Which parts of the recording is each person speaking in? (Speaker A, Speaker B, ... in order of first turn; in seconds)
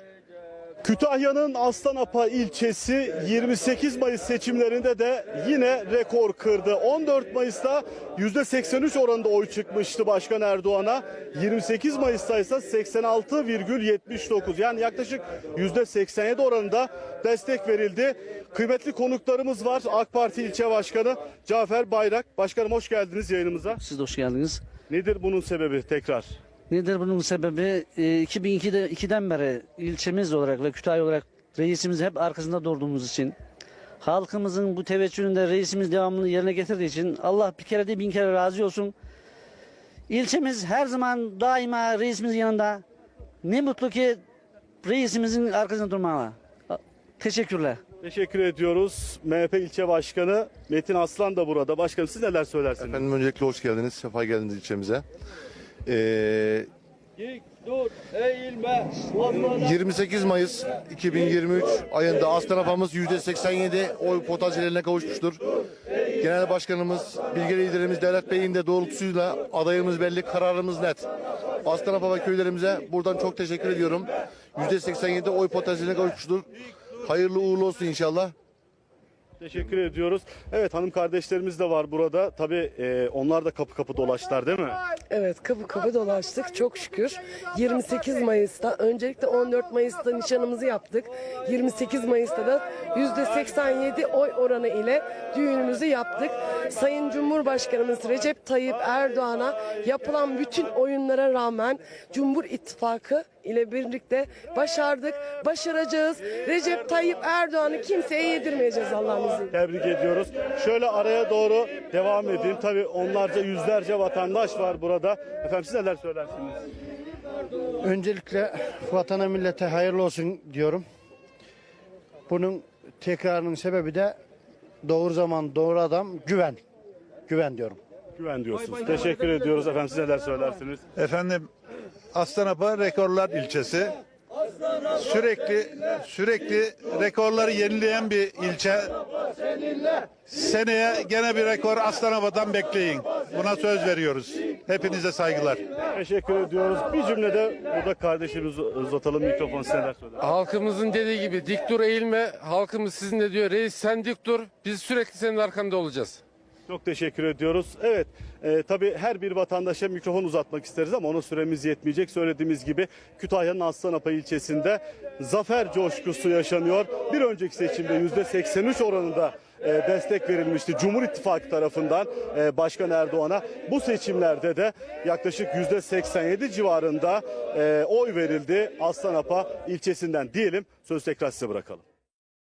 Speaker A: 0.8-23.8, 24.9-26.3, 48.0-53.0, 79.4-84.8, 109.5-116.7, 128.2-130.8, 145.9-150.2, 156.7-181.8
Speaker B: 23.8-24.6, 26.7-33.4, 34.0-38.9, 40.1-42.8, 43.4-44.2, 44.8-47.8
Speaker C: 52.8-55.0, 55.9-56.7, 59.4-65.4, 66.2-71.1, 71.6-76.5, 77.0-78.3
Speaker D: 85.1-109.5
Speaker E: 117.8-120.8, 122.3-124.2, 124.8-126.6, 127.3-127.8
Speaker F: 131.0-131.5, 132.1-133.9, 134.9-138.9, 140.2-145.6
Speaker G: 150.2-156.2